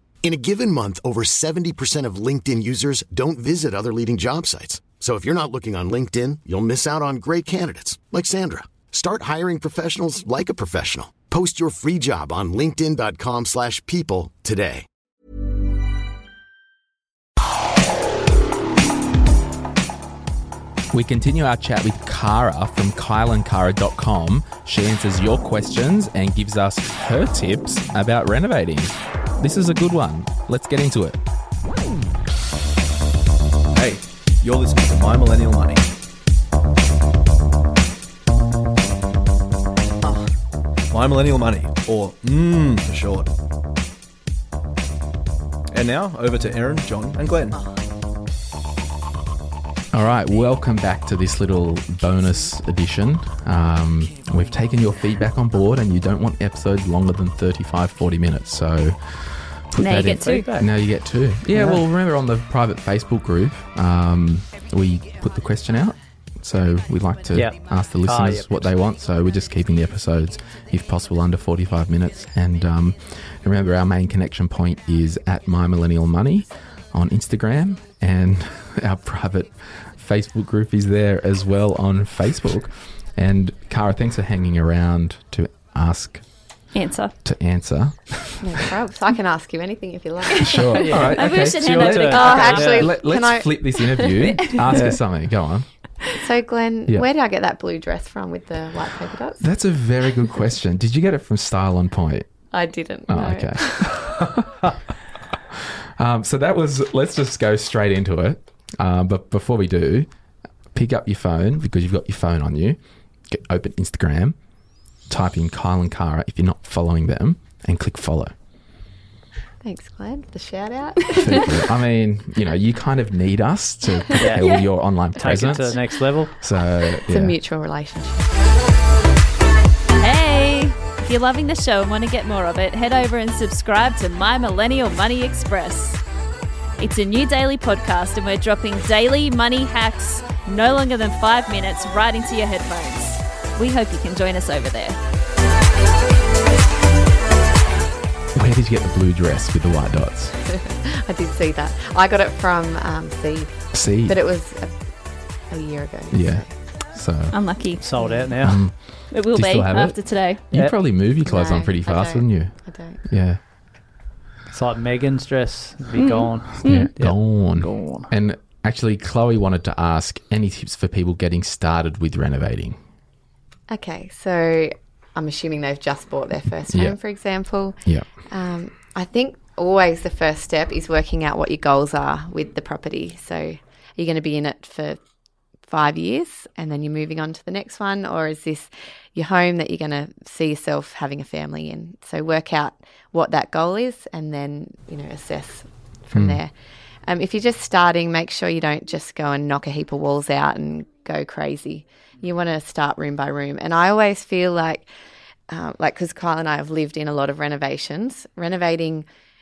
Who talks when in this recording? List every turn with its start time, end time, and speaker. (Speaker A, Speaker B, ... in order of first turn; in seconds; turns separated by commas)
Speaker A: 0.2-14.8, Speaker B: 20.9-31.2, Speaker C: 33.7-35.8, Speaker C: 40.9-43.3, Speaker C: 45.7-47.6, Speaker B: 49.9-86.2, Speaker D: 59.8-60.5, Speaker E: 60.2-60.7, Speaker E: 61.5-61.8, Speaker E: 67.3-68.6, Speaker D: 86.7-87.1, Speaker B: 87.2-88.7, Speaker F: 88.4-90.6, Speaker D: 90.3-92.9, Speaker B: 90.4-95.7, Speaker E: 90.7-92.8, Speaker F: 92.1-94.4, Speaker E: 94.7-95.0, Speaker F: 96.1-99.5, Speaker B: 99.4-102.3, Speaker F: 102.5-104.0, Speaker B: 103.1-104.7, Speaker B: 105.5-110.1, Speaker B: 110.7-112.8, Speaker B: 113.3-114.3, Speaker B: 115.1-118.3, Speaker F: 119.6-121.6, Speaker B: 121.1-127.4, Speaker E: 124.2-126.3, Speaker F: 127.1-128.3, Speaker D: 129.9-136.0, Speaker D: 136.8-145.0, Speaker B: 148.3-150.3, Speaker F: 150.4-154.7, Speaker B: 153.7-154.2, Speaker F: 155.5-156.5, Speaker B: 156.1-157.3, Speaker D: 157.3-157.9, Speaker E: 157.8-158.6, Speaker F: 158.0-158.3, Speaker B: 158.4-163.4, Speaker D: 159.1-160.4, Speaker F: 161.2-163.0, Speaker E: 164.5-168.1, Speaker D: 165.9-166.9, Speaker B: 166.6-172.8, Speaker F: 173.7-185.0, Speaker B: 176.7-177.0, Speaker F: 185.7-196.5, Speaker B: 196.1-196.4, Speaker F: 197.1-204.9, Speaker F: 205.5-209.1